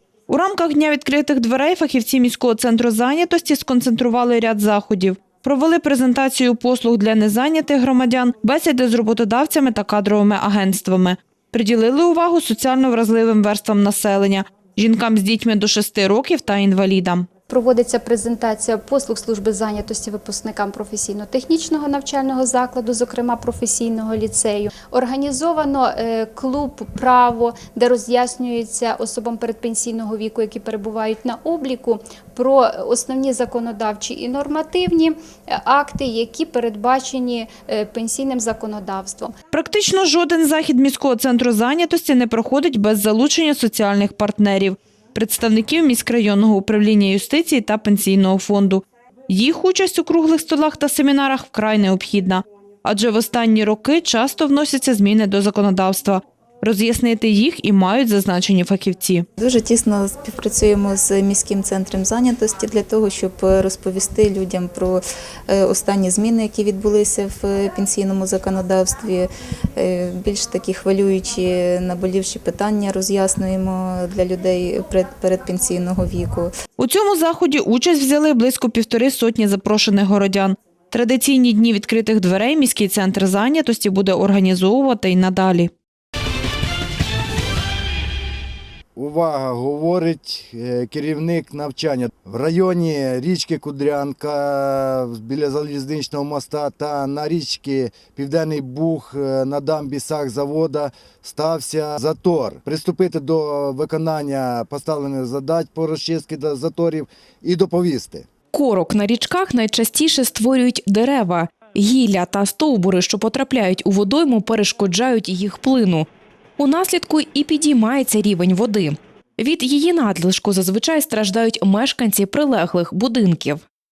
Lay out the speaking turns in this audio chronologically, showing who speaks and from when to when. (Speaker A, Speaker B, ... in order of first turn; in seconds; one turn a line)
Speaker A: 0.3-17.3
Speaker B: 17.5-39.3
Speaker A: 39.5-59.3
Speaker C: 59.4-76.5
Speaker A: 76.8-85.7
Speaker D: 89.0-108.2
Speaker E: 108.5-123.6